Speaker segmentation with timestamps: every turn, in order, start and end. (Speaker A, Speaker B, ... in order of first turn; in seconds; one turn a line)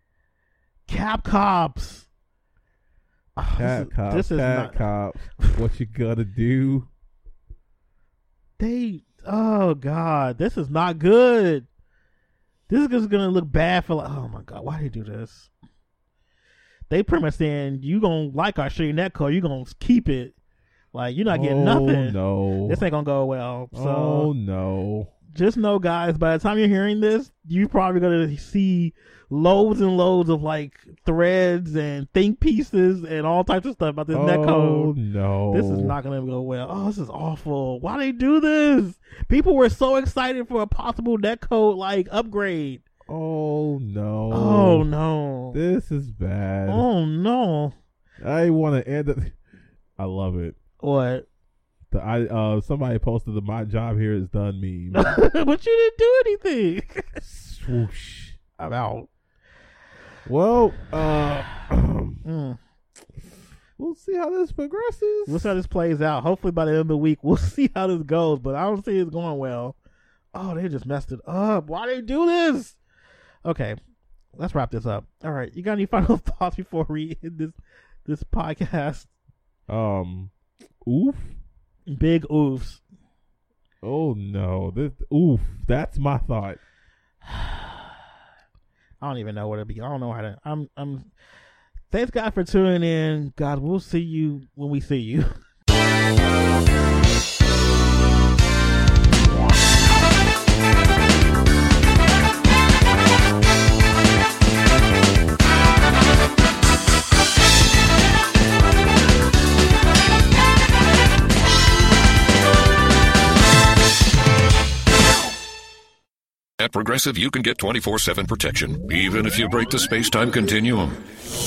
Speaker A: 0.9-2.1
Speaker A: 3.4-4.8
Speaker B: 3.5-6.9
Speaker A: 8.6-11.7
Speaker A: 12.7-15.5
Speaker A: 16.9-20.3
Speaker A: 20.9-24.3
Speaker B: 21.3-22.9
Speaker B: 23.7-25.1
Speaker A: 25.3-34.9
Speaker B: 34.1-36.0
Speaker A: 35.5-42.8
Speaker B: 43.1-44.9
Speaker A: 44.3-45.6
Speaker B: 45.5-46.9
Speaker A: 46.7-47.7
Speaker B: 48.2-49.4
Speaker B: 50.0-50.6
Speaker A: 50.8-51.3
Speaker B: 51.9-55.1
Speaker A: 54.9-57.2
Speaker B: 57.2-58.4
Speaker A: 58.6-59.1
Speaker B: 60.3-62.2
Speaker A: 62.2-62.6
Speaker B: 63.8-65.5
Speaker A: 65.3-69.8
Speaker A: 70.3-72.8
Speaker A: 73.5-73.8
Speaker A: 74.3-79.1
Speaker B: 79.7-80.3
Speaker B: 80.8-81.4
Speaker A: 81.9-82.8
Speaker B: 83.8-86.6
Speaker A: 87.2-87.8
Speaker A: 89.0-91.1
Speaker A: 91.9-95.3
Speaker C: 116.6-121.0